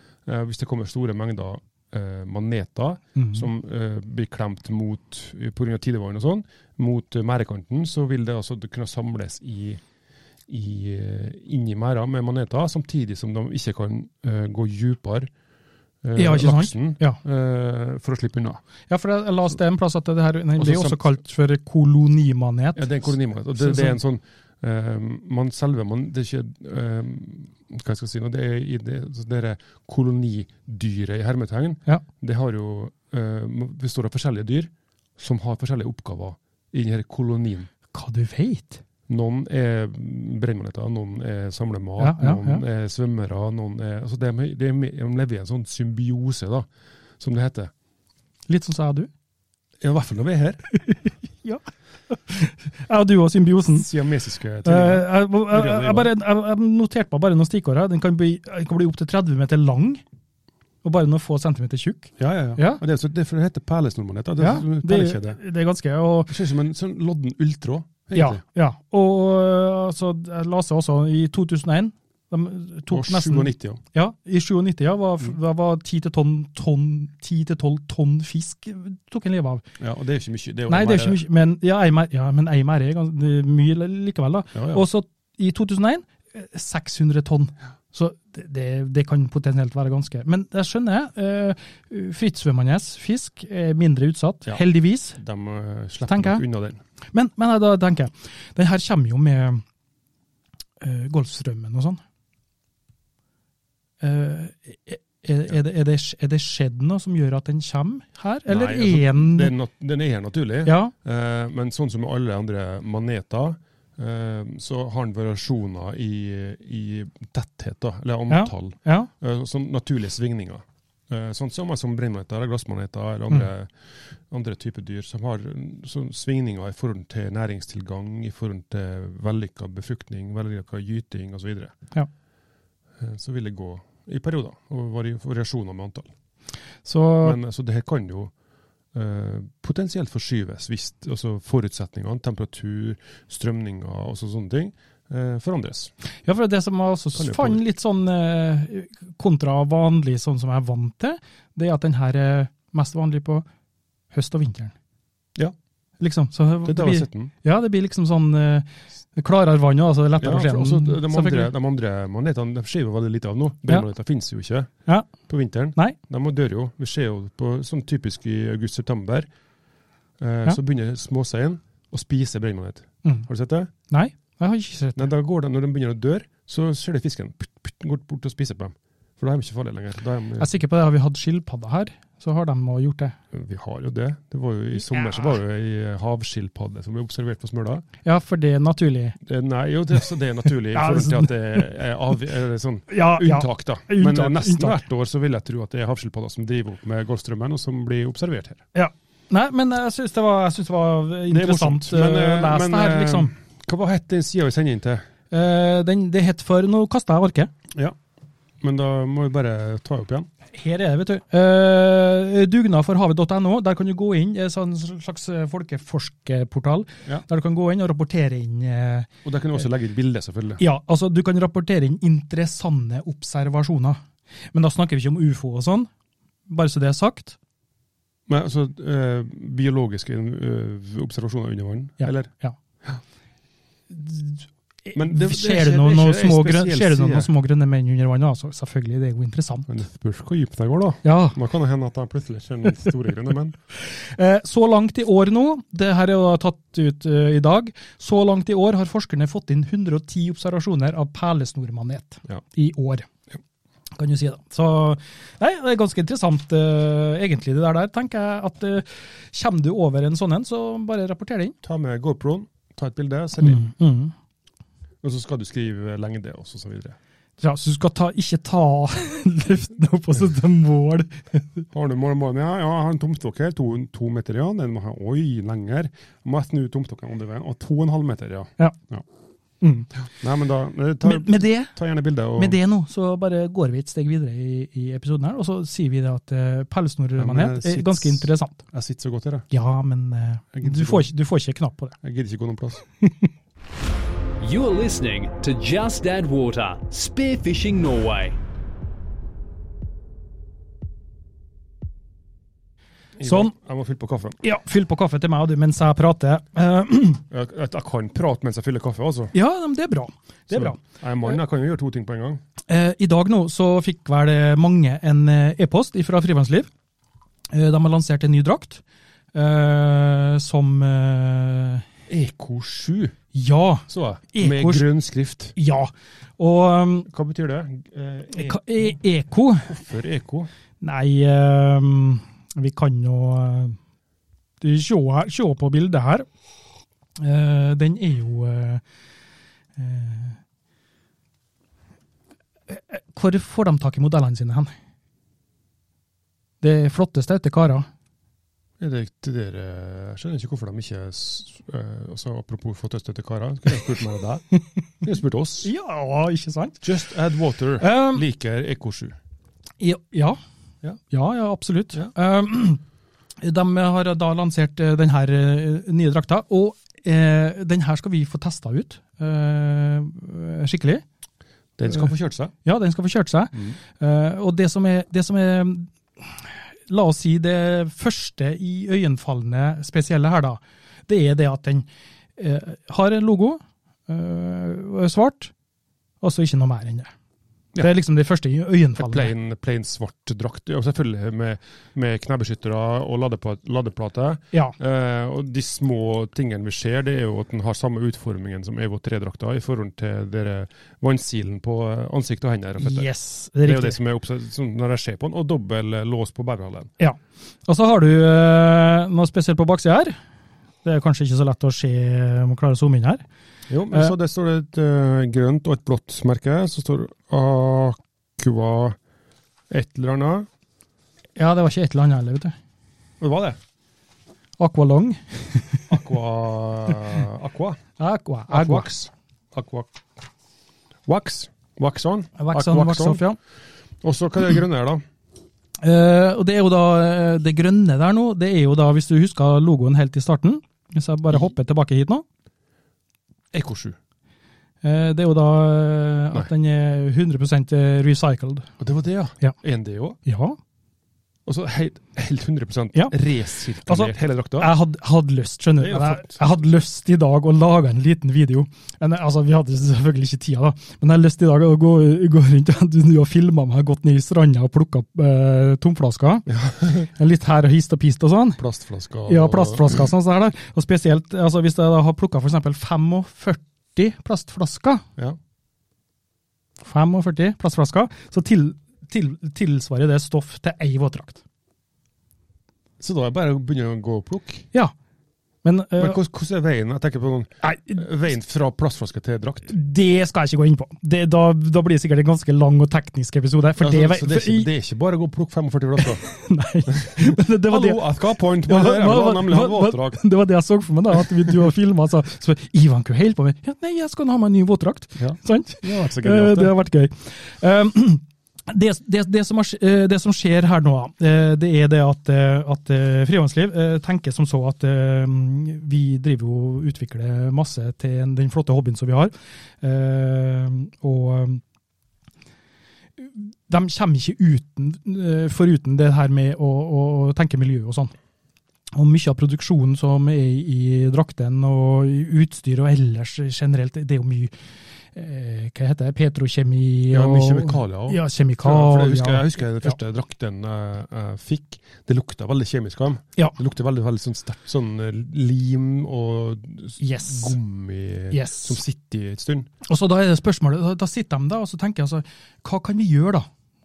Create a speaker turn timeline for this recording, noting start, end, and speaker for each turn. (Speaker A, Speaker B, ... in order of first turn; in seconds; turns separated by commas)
Speaker A: 0.3-9.8, Speaker B: 3.2-3.5, Speaker A: 10.5-15.3, Speaker A: 16.0-18.6, Speaker B: 16.1-17.2, Speaker B: 18.9-24.0, Speaker A: 20.6-21.0, Speaker A: 22.8-37.7, Speaker B: 37.9-38.8, Speaker A: 39.1-46.7, Speaker B: 42.0-42.6, Speaker A: 47.2-47.7, Speaker B: 48.5-49.1, Speaker A: 49.8-50.6, Speaker B: 50.7-53.9, Speaker A: 53.7-56.1, Speaker B: 54.6-60.0, Speaker B: 60.8-62.8, Speaker A: 62.2-65.4, Speaker B: 64.4-66.3, Speaker A: 66.3-68.4, Speaker B: 68.1-79.6, Speaker A: 72.9-73.8, Speaker A: 79.8-81.2, Speaker B: 80.7-95.2, Speaker A: 84.5-84.8, Speaker A: 95.2-96.8, Speaker B: 96.1-96.4, Speaker B: 97.1-99.6, Speaker B: 100.8-102.0, Speaker B: 104.0-109.5, Speaker A: 108.5-131.8, Speaker B: 110.7-110.9, Speaker B: 118.3-119.1, Speaker A: 133.0-136.1, Speaker B: 136.8-137.4, Speaker A: 137.2-138.3, Speaker A: 138.9-145.9, Speaker B: 146.2-153.4, Speaker A: 147.2-147.6, Speaker B: 154.1-154.7, Speaker B: 156.0-161.5, Speaker A: 156.7-157.3, Speaker A: 160.2-169.3, Speaker A: 170.2-173.7, Speaker B: 173.9-175.1, Speaker A: 174.9-180.5, Speaker B: 180.4-183.2, Speaker A: 183.3-187.8, Speaker B: 188.1-189.2, Speaker A: 189.2-198.6, Speaker B: 190.7-191.7, Speaker B: 192.9-194.8, Speaker B: 198.7-203.3, Speaker A: 201.3-205.1, Speaker B: 205.3-207.5, Speaker A: 208.6-210.3, Speaker B: 210.5-219.1, Speaker A: 219.2-220.6, Speaker B: 220.6-224.0, Speaker B: 224.5-225.9, Speaker B: 226.5-227.4, Speaker A: 228.3-232.3, Speaker B: 232.0-232.6, Speaker B: 233.9-239.7, Speaker A: 234.9-237.3, Speaker A: 239.7-243.6, Speaker B: 241.0-241.4, Speaker B: 243.8-253.1, Speaker B: 253.9-261.6, Speaker A: 261.6-263.7, Speaker B: 263.4-264.1, Speaker A: 265.0-267.0, Speaker B: 267.4-271.6, Speaker A: 271.7-279.0, Speaker B: 279.6-279.9, Speaker A: 280.0-282.6, Speaker B: 281.0-281.7, Speaker B: 282.3-288.6, Speaker A: 287.2-289.4, Speaker B: 289.5-292.0, Speaker A: 290.5-291.1, Speaker A: 292.0-292.8, Speaker B: 293.0-293.3, Speaker C: 294.4-298.4, Speaker A: 303.2-304.4, Speaker B: 303.2-303.5, Speaker B: 304.4-307.2, Speaker A: 307.3-309.3, Speaker B: 309.3-310.8, Speaker A: 310.5-312.4, Speaker B: 312.7-316.7, Speaker B: 317.5-318.8, Speaker B: 319.3-321.8, Speaker A: 322.1-323.1, Speaker B: 323.3-324.9, Speaker A: 323.9-325.5, Speaker B: 325.6-327.1, Speaker A: 327.1-329.0, Speaker B: 328.3-329.7, Speaker A: 329.6-330.5, Speaker B: 330.8-333.8, Speaker B: 334.6-336.3, Speaker B: 337.2-338.8, Speaker B: 339.8-340.4, Speaker B: 342.7-344.7, Speaker B: 346.6-347.9, Speaker A: 348.8-354.4, Speaker A: 355.0-355.7, Speaker B: 355.6-356.9, Speaker A: 356.8-359.2, Speaker B: 357.8-358.2, Speaker B: 359.8-360.4, Speaker B: 361.1-362.8, Speaker B: 363.4-371.0, Speaker A: 371.8-372.5, Speaker B: 372.6-385.5, Speaker B: 386.2-387.1, Speaker B: 387.8-389.3, Speaker A: 389.0-403.1, Speaker B: 402.8-404.0, Speaker A: 403.6-406.9, Speaker B: 407.0-410.1, Speaker B: 410.8-413.2, Speaker A: 413.7-419.0, Speaker A: 419.7-420.5, Speaker B: 421.4-422.6, Speaker A: 423.2-423.6, Speaker B: 424.6-425.9, Speaker A: 425.9-427.8, Speaker B: 428.0-428.9, Speaker A: 428.5-430.0, Speaker A: 431.1-433.2, Speaker B: 432.4-433.4, Speaker A: 434.0-435.0, Speaker B: 435.8-442.2, Speaker A: 443.5-444.0, Speaker B: 444.8-448.7, Speaker A: 448.8-450.2, Speaker B: 450.2-450.6, Speaker A: 451.4-454.7, Speaker B: 453.8-468.6, Speaker A: 455.8-456.4, Speaker A: 466.5-467.1, Speaker A: 468.6-470.1, Speaker B: 469.3-475.1, Speaker B: 476.8-481.4, Speaker A: 483.0-484.7, Speaker B: 485.6-486.2, Speaker A: 486.0-489.7, Speaker B: 487.6-488.0, Speaker B: 489.7-494.7, Speaker A: 493.8-496.2, Speaker B: 496.0-498.0, Speaker A: 496.9-500.2, Speaker B: 498.6-521.6, Speaker A: 505.2-506.7, Speaker B: 523.2-528.1, Speaker B: 528.9-534.5, Speaker B: 535.1-539.9, Speaker A: 537.1-549.7, Speaker B: 547.0-547.6, Speaker B: 548.3-548.8, Speaker B: 549.8-553.5